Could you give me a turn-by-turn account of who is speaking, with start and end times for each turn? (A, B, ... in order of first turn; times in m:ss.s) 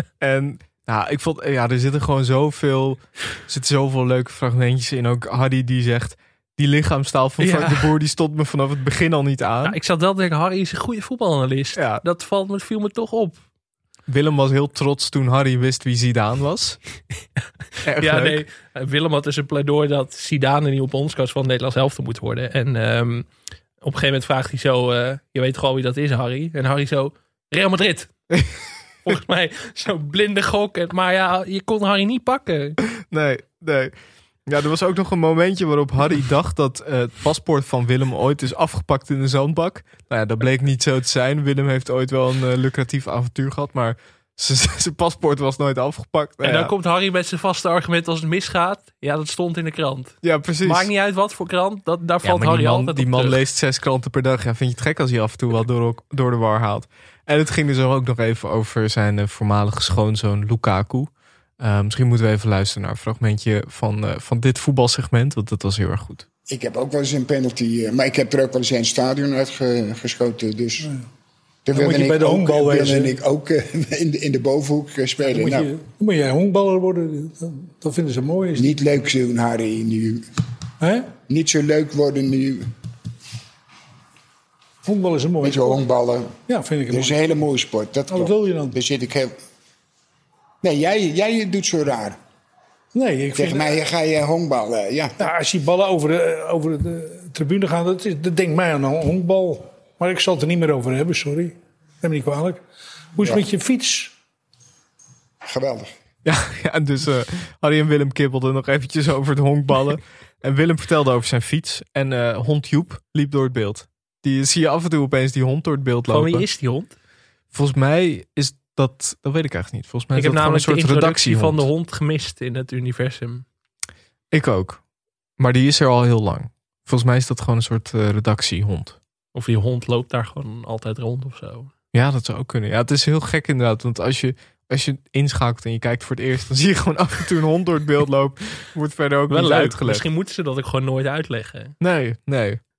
0:00.2-0:09.8 A
0:07.4-0:07.9 B
0:09.6-0:13.4 B
0:11.8-0:12.0 A
0:14.1-0:16.8 A
0:17.8-0:18.4 A
0:18.0-0:23.3 B
0:23.8-0:28.1 B
0:29.0-0:32.8 B
0:33.1-0:33.9 A
0:34.5-0:46.7 A
0:46.4-0:53.4 B
0:50.2-0:50.9 A
0:52.2-1:06.2 A
1:06.5-1:10.9 C
1:11.7-1:15.7 C
1:11.7-1:13.2 D
1:15.2-1:18.8 D
1:18.6-1:20.2 C
1:20.8-1:21.2 D
1:21.3-1:22.7 C
1:24.8-1:25.8 D
1:25.4-1:26.4 C
1:26.5-1:27.5 D
1:26.9-1:29.4 C
1:28.1-1:28.8 D
1:30.6-1:32.2 C
1:32.9-1:33.8 D
1:33.3-1:35.2 C
1:35.2-1:42.6 D
1:43.2-1:44.1 D
1:45.4-1:45.9 C
1:46.2-1:56.5 A
1:56.1-1:56.9 B
1:57.5-2:01.7 A
2:00.2-2:03.4 B
2:04.3-2:04.8 A
2:05.4-2:09.0 A
2:09.4-2:11.7 B
2:11.9-2:20.0 A
2:19.3-2:21.8 B
2:21.8-2:22.6 A